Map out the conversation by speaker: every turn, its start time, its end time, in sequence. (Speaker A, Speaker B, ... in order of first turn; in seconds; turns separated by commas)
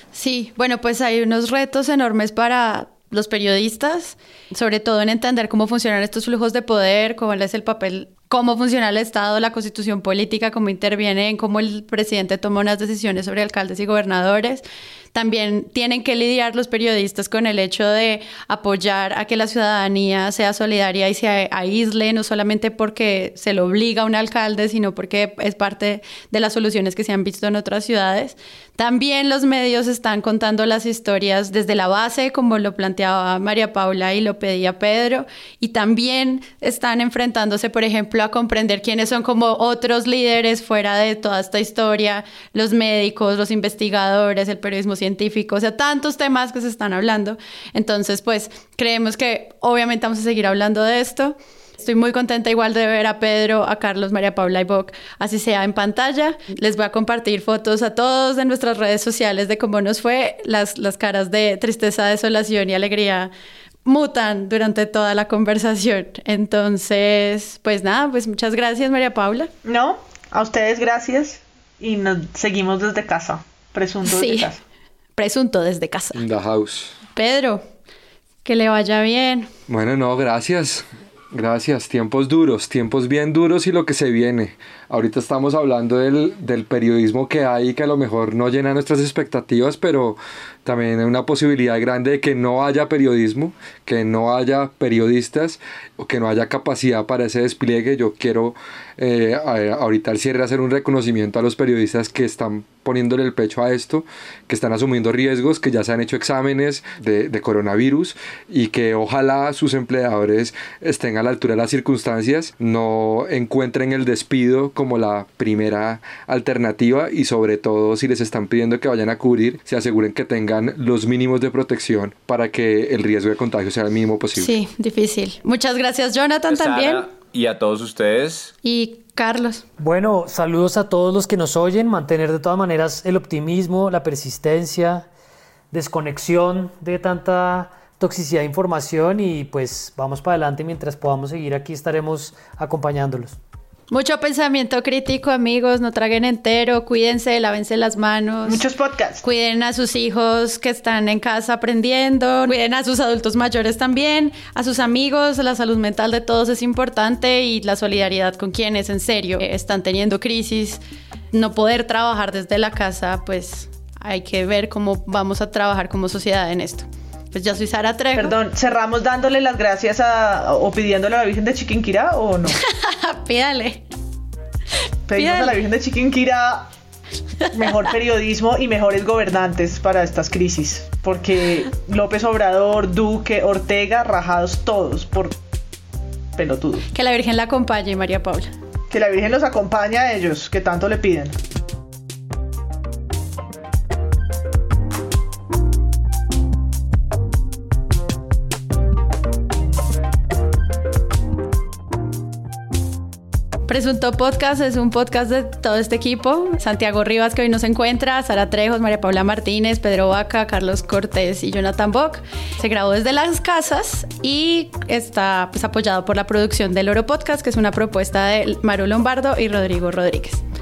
Speaker A: 0.1-63.3, Speaker A: 63.8-69.5, Speaker B: 69.6-74.6, Speaker A: 74.0-74.5, Speaker A: 75.2-76.2, Speaker C: 76.1-77.0, Speaker A: 77.1-77.6, Speaker A: 78.4-79.5, Speaker C: 79.7-124.5, Speaker A: 124.3-127.1, Speaker D: 126.5-128.5, Speaker A: 128.6-129.6, Speaker E: 129.8-135.1, Speaker E: 135.7-143.4, Speaker A: 143.9-148.6, Speaker B: 148.4-149.2, Speaker A: 149.2-160.8, Speaker A: 161.3-168.3, Speaker B: 168.1-172.6, Speaker A: 172.5-173.8, Speaker B: 175.1-176.7, Speaker A: 175.1-175.6, Speaker B: 177.5-185.3, Speaker B: 186.4-186.8, Speaker A: 186.9-188.5, Speaker B: 188.9-191.3, Speaker A: 203.7-220.4